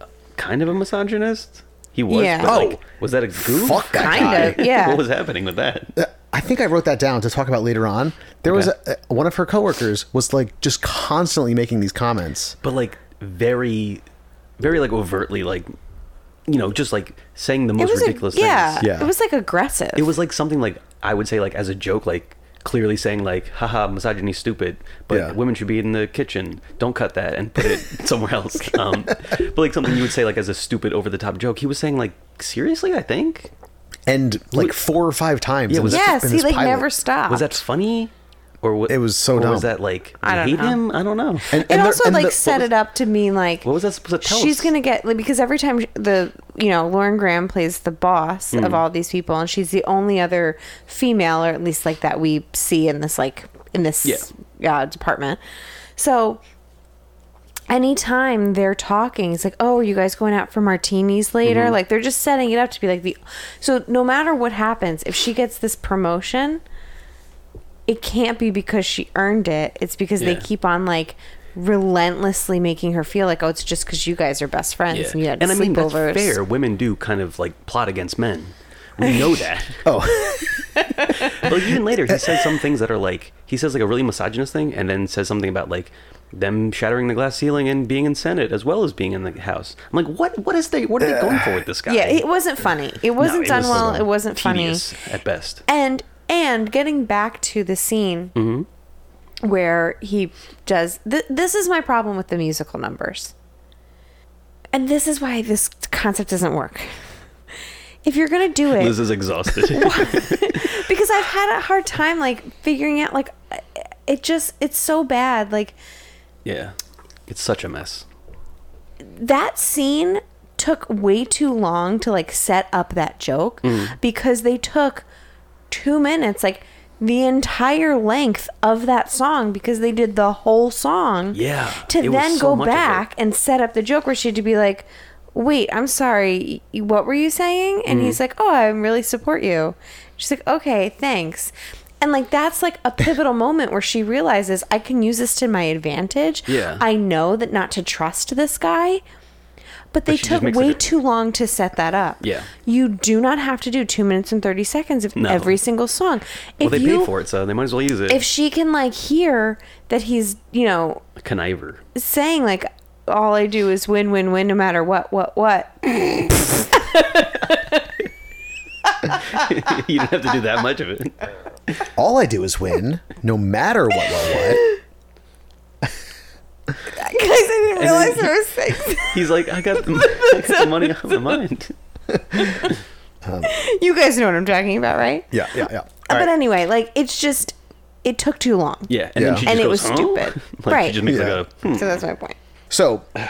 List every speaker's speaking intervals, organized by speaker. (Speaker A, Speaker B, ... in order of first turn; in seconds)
Speaker A: 0.4-5.9, 8.5-8.7, 12.6-14.0, 14.6-15.8, 16.5-18.9, 20.0-33.5, 35.7-36.1, 37.3-38.1, 38.6-41.6, 43.6-44.7, 48.5-48.8, 54.0-54.3, 61.5-61.8, 70.2-70.5, 74.9-79.8, 81.1-92.2, 93.2-95.6, 98.3-98.7, 108.8-110.7, 116.5-116.8, 117.3-118.1, 123.6-124.0, 131.3-133.0, 137.9-138.2, 146.5-146.8, 150.1-150.8, 152.2-152.5, 155.2-155.6, 156.6-158.2, 161.2-161.8, 169.3-171.2, 177.8-178.3, 178.9-181.7, 188.9-192.0
Speaker B: 2.1-2.6, 3.9-5.0, 17.8-20.1, 35.9-37.6, 40.2-40.8, 41.5-43.7, 44.2-55.4, 56.0-56.4, 57.7-66.6, 67.9-76.4, 80.8-81.1, 91.9-94.8, 95.7-98.3, 99.4-103.3, 104.7-107.0, 108.0-109.0, 109.7-115.8, 119.0-125.0, 125.7-149.0, 149.9-157.1, 158.1-161.0, 161.9-167.2, 176.9-179.2, 180.0-180.6, 183.4-185.3, 186.1-191.0, 191.7-192.4
Speaker C: 2.4-2.8, 3.4-4.6, 6.0-12.6, 18.8-19.1, 25.1-25.4, 34.1-36.9, 38.9-39.7, 41.5-42.6, 79.8-80.7, 81.4-82.4, 91.0-91.6, 171.9-174.6, 183.2-183.5, 185.3-186.3, 189.2-189.6, 191.0-191.4, 192.7-193.1